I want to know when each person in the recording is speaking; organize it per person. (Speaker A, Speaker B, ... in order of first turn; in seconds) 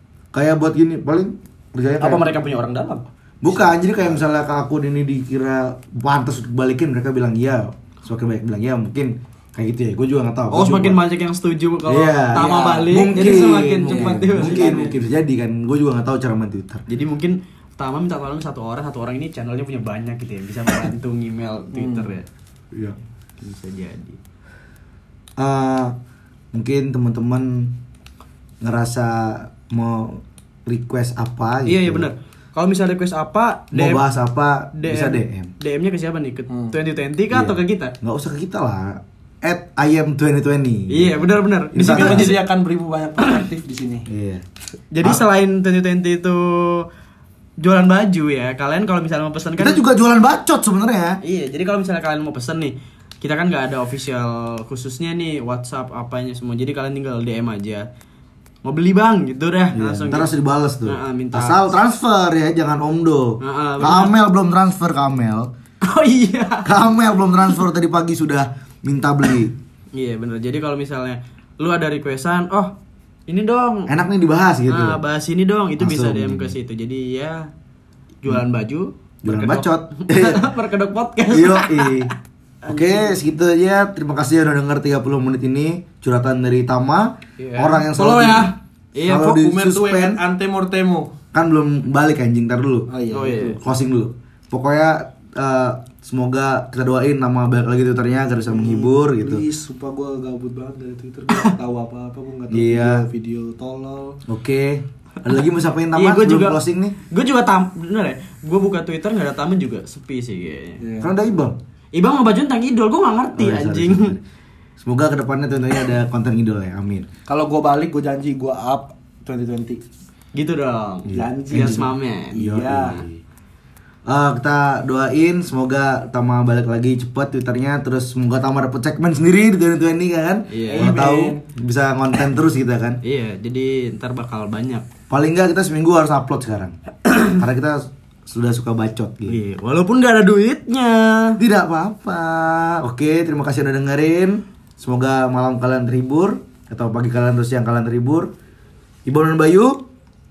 Speaker A: 0.3-2.3, 3.4-11.0, 11.9-16.9, 25.4-25.9, 26.5-27.8, 28.6-32.1, 33.7-35.5, 37.3-42.4, 44.1-44.4, 49.6-51.2, 59.7-65.5, 66.6-69.5, 73.9-75.0, 75.8-76.5, 79.2-80.5, 81.3-82.1, 82.7-90.2, 91.3-92.9, 93.6-99.4, 102.5-103.0, 104.3-107.0, 111.0-111.5, 113.4-114.2, 114.8-117.1, 121.1-123.2, 124.0-133.0, 135.1-139.4, 141.4-148.3, 149.1-149.8
Speaker B: 2.0-3.0, 10.5-15.0, 16.9-22.3, 23.4-24.2, 31.6-34.0, 34.7-37.9, 40.9-42.4, 44.9-46.9, 47.6-49.8, 51.2-57.9, 58.6-60.3, 60.9-61.7, 63.4-64.1, 65.8-66.7, 69.9-72.7, 73.3-73.9, 74.7-77.5, 78.2-82.1, 82.6-83.2, 87.4-89.3, 93.1-93.6, 105.9-110.8, 111.9-114.2, 120.3-122.4, 130.5-130.9, 133.0-134.9, 139.3-141.4
Speaker C: 3.9-4.2, 12.3-14.9, 21.8-22.1, 36.5-36.7, 41.8-44.1, 87.9-91.1, 92.9-93.6, 98.5-104.2, 110.8-111.1, 117.3-119.8, 121.1-123.0, 130.6-131.4